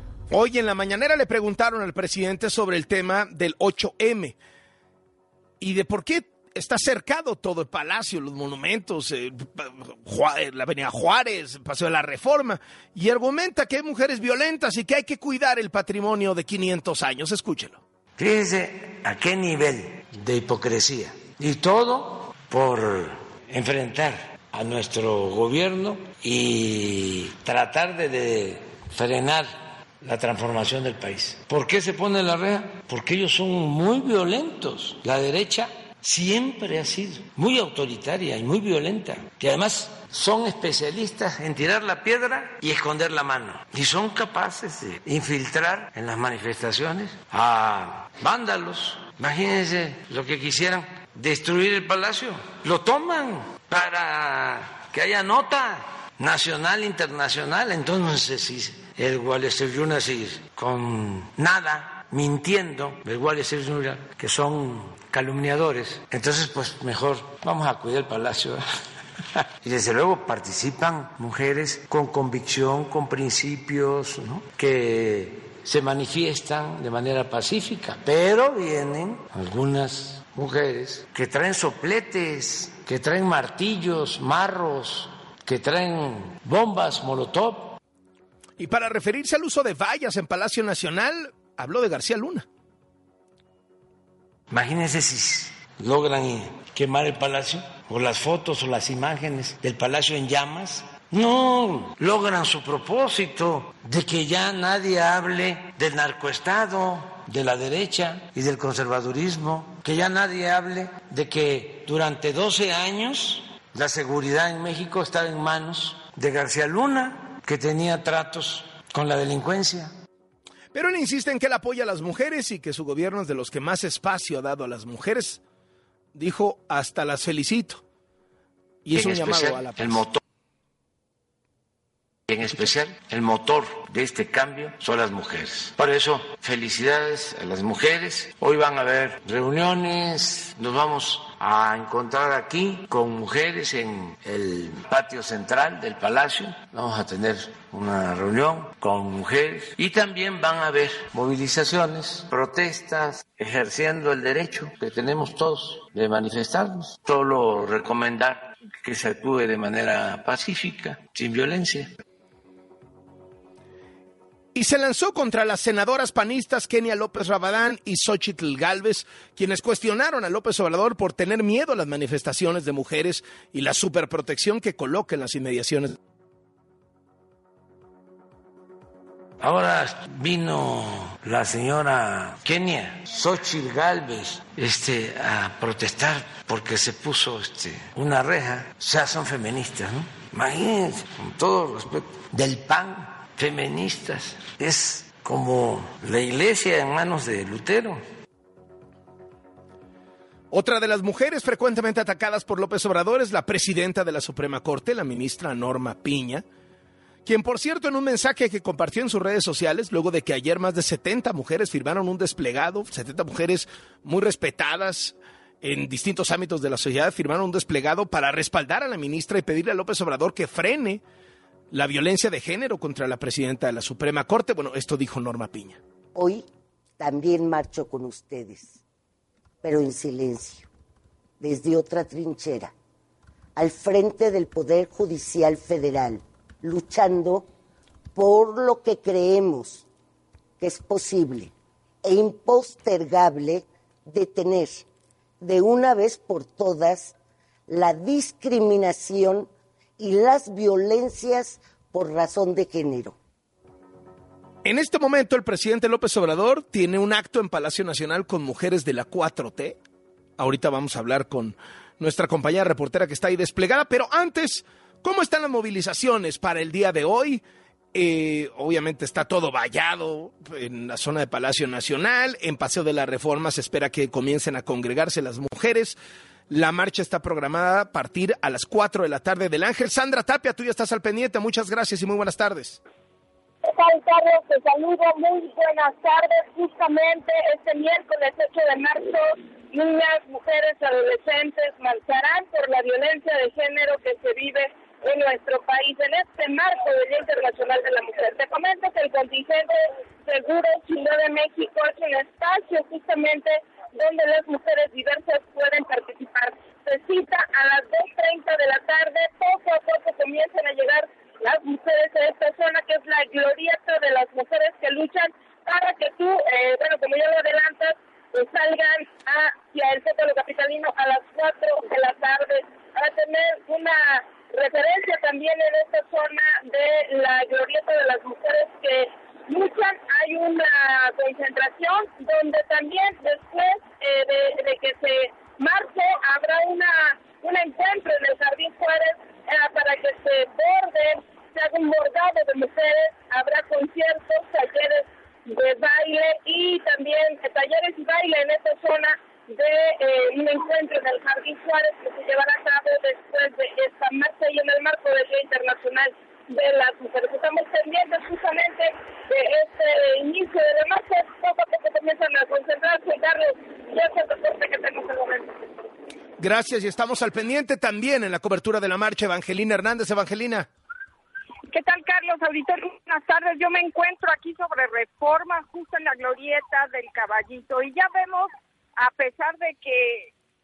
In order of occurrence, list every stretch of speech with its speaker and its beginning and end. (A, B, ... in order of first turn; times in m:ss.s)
0:00.3-0:04.4 A
0:05.6-0:17.8 A
0:18.2-1:08.6 B
1:09.4-1:27.8 B
1:28.6-1:32.4 A
1:34.5-1:59.9 B
2:00.7-2:05.4 A
2:06.1-2:07.8 A
2:08.8-2:10.0 A
2:08.9-2:10.2 B
2:12.3-2:41.9 B
2:44.5-2:56.0 A
2:59.4-3:18.0 B
3:20.5-3:26.4 A
3:27.2-3:41.0 A
3:41.7-3:45.8 A
3:46.1-3:46.4 C
3:47.0-3:48.8 C
3:49.6-3:50.7 C
3:51.4-3:52.7 C
3:53.6-3:57.5 C
3:58.1-3:59.8 C
4:00.6-4:01.5 C
4:02.0-4:04.8 C
4:05.4-4:07.1 C
4:07.7-4:13.2 C
4:14.6-4:19.8 A
4:20.4-4:27.4 A
4:27.9-4:36.0 A
4:36.5-4:42.8 A
4:43.6-6:05.5 D
6:06.4-6:10.7 A
6:11.7-6:20.3 E